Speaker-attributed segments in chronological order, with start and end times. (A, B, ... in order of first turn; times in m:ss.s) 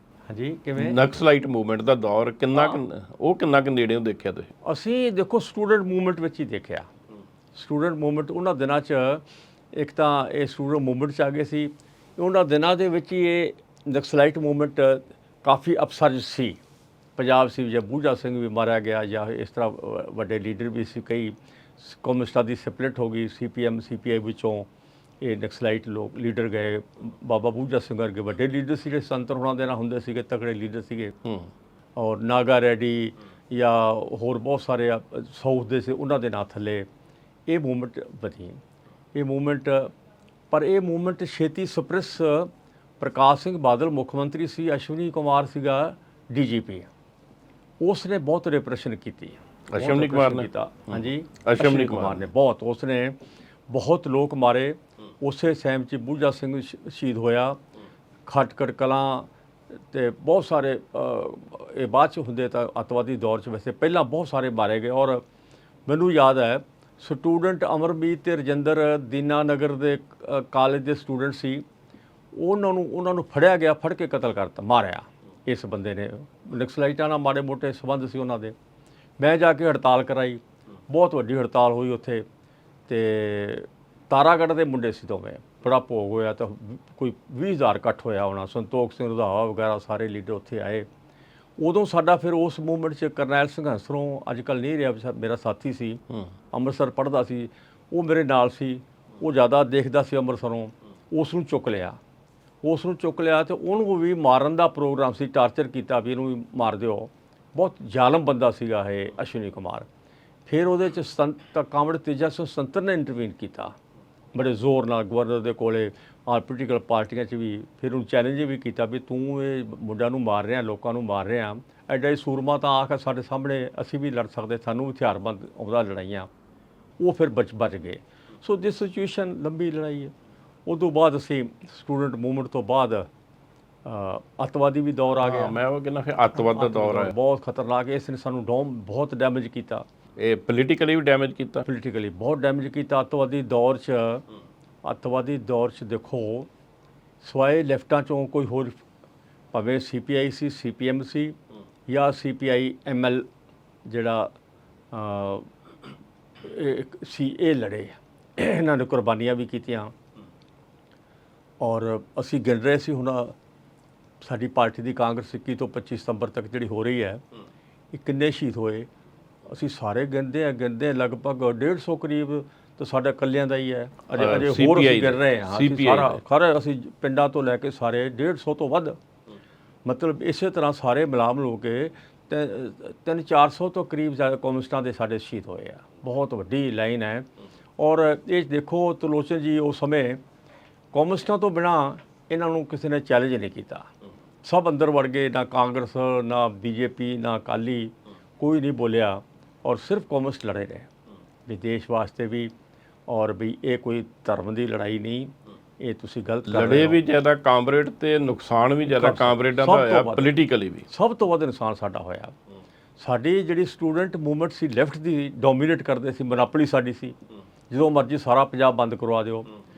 0:00.3-0:01.1 A
0:00.8-0:04.5 B
0:04.6-0:06.9 A
0:07.5-0:16.6 A
0:17.2-0:24.7 A
0:25.2-0:31.1 A
0:32.0-0:36.9 A
0:37.5-0:38.6 A
0:39.1-0:39.9 A
0:40.5-0:46.9 A
0:47.8-0:53.2 A
0:49.7-0:52.2 B
0:53.7-0:57.6 A
0:58.3-1:05.2 A
1:05.8-1:11.6 A
1:12.3-1:18.5 A
1:19.2-1:22.2 A
1:22.9-1:30.9 A
1:31.6-1:42.0 A
1:42.6-1:49.9 A
1:50.5-1:53.7 A
1:54.3-2:06.3 A
2:07.0-2:10.1 A
2:10.6-2:13.1 A
2:13.8-2:15.6 A
2:15.2-2:17.1 B
2:16.3-2:19.8 A
2:20.2-2:21.6 B
2:21.6-2:24.2 A
2:24.8-2:26.5 A
2:27.2-2:28.8 A
2:29.5-2:31.4 A
2:31.9-2:33.2 A
2:33.8-2:34.3 A
2:34.9-2:35.5 A
2:36.4-2:39.9 A
2:41.6-2:43.3 A
2:44.2-2:47.2 A
2:47.9-2:48.9 A
2:49.5-2:59.0 A
2:54.1-2:56.2 B
2:59.8-3:07.3 A
3:07.8-3:10.2 A
3:10.9-3:13.9 A
3:14.4-3:20.9 A
3:21.4-3:22.5 A
3:23.1-3:27.0 A
3:26.5-3:30.9 B
3:28.9-3:30.3 A
3:30.9-3:32.3 A
3:33.0-3:37.2 A
3:37.7-3:39.5 A